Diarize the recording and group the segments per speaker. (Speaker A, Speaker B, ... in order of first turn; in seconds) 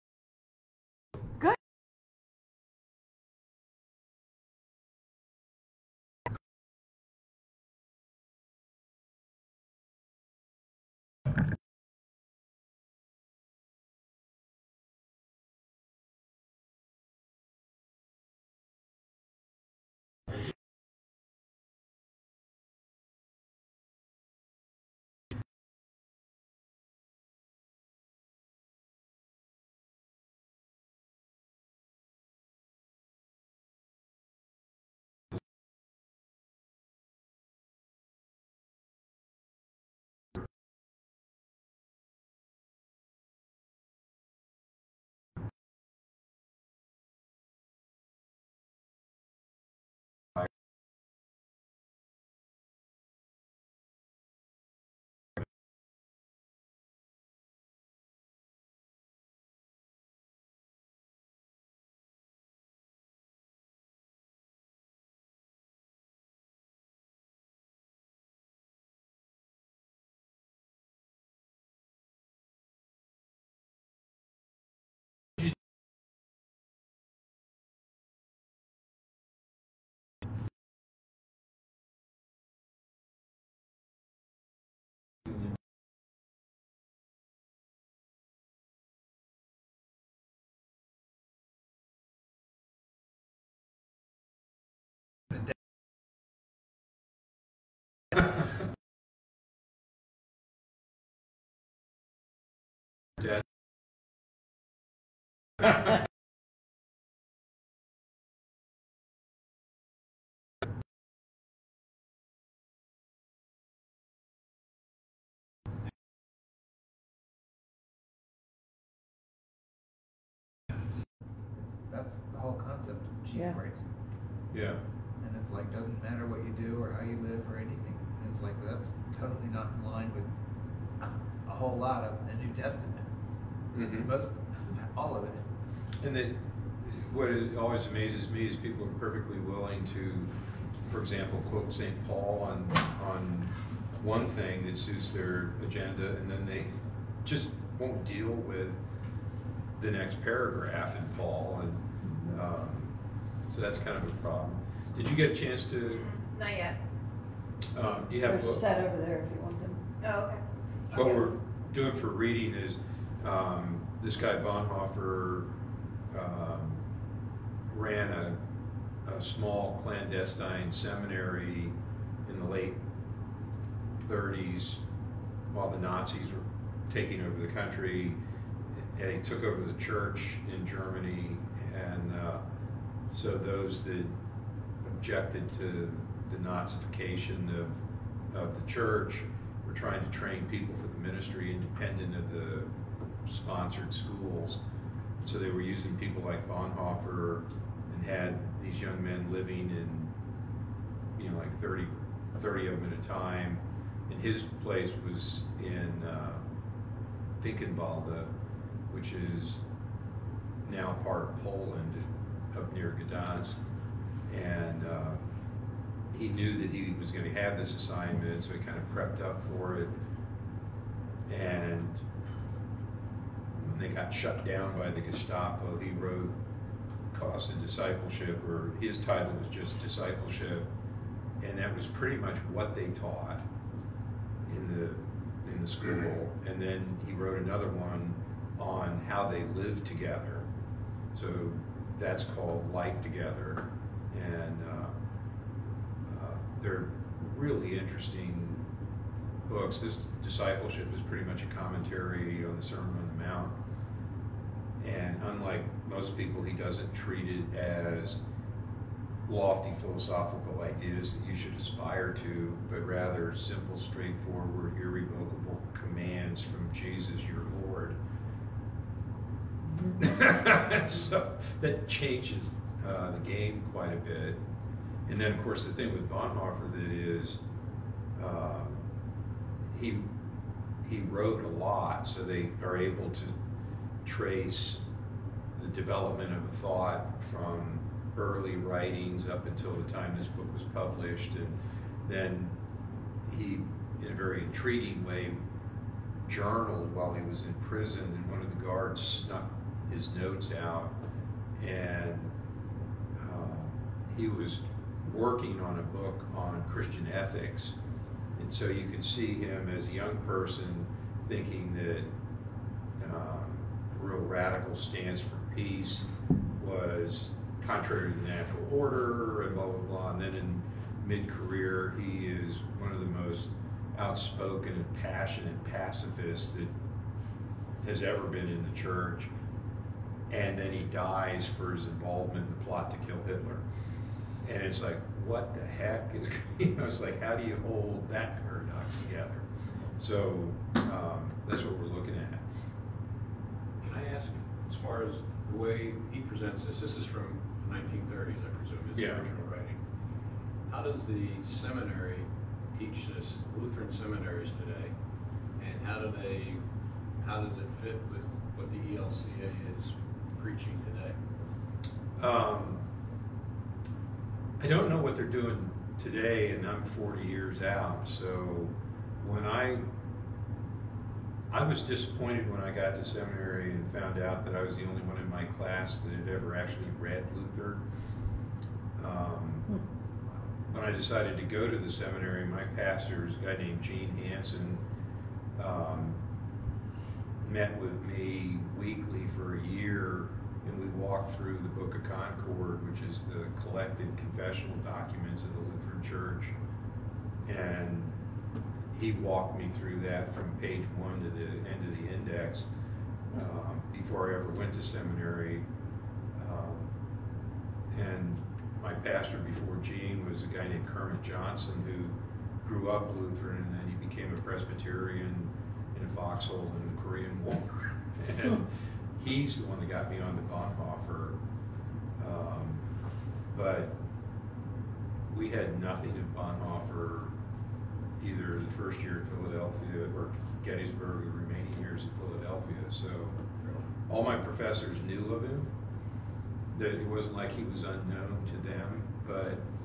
Speaker A: 121.5-123.8, 125.2-130.3, 131.4-133.1, 133.9-135.4
Speaker B: 124.5-124.8, 133.7-134.1, 136.0-140.3, 140.8-146.7, 147.2-148.8, 149.8-152.9, 153.5-156.0, 157.7-158.6, 160.9-165.5, 166.1-166.8, 167.7-168.4, 169.0-171.7, 172.2-172.8, 174.0-174.8, 175.5-178.2, 178.8-182.4, 183.1-184.1, 184.8-192.7, 193.2-194.6, 195.2-200.1, 201.2-206.4, 207.4-208.3, 208.9-209.6, 210.6-213.6, 214.3-215.2, 216.1-219.9, 221.3-222.0, 223.6-226.3, 227.1-230.7, 231.4-233.4, 234.5-240.4, 241.1-244.9, 246.1-248.6, 249.5-253.5, 254.8-258.2, 259.3-268.0, 270.0-274.4, 275.1-277.4, 278.1-278.8, 279.7-280.0, 280.8-283.4, 284.0-284.8, 285.6-291.5, 292.1-292.5, 293.3-295.4, 296.2-300.9, 301.6-302.3, 303.2-307.7, 308.4-312.1, 313.0-326.7, 327.8-329.3, 330.3-333.6, 334.4-339.4, 340.0-342.4, 348.9-349.2, 362.2-362.8, 364.6-369.8, 371.5-377.8, 379.0-379.7, 380.7-384.8, 385.6-386.2, 387.4-396.5, 397.4-398.1, 398.9-402.7, 403.3-405.6, 406.4-406.9, 407.9-421.4, 422.2-422.8, 423.5-423.9, 425.3-427.3, 428.2-433.4, 434.1-435.7, 436.7-439.6
Speaker C: 152.0-152.4, 158.2-159.8, 269.7-269.9
Speaker D: 155.9-156.8, 160.0-161.2
Speaker E: 343.8-349.8, 350.7-354.9, 355.6-356.6, 357.2-361.2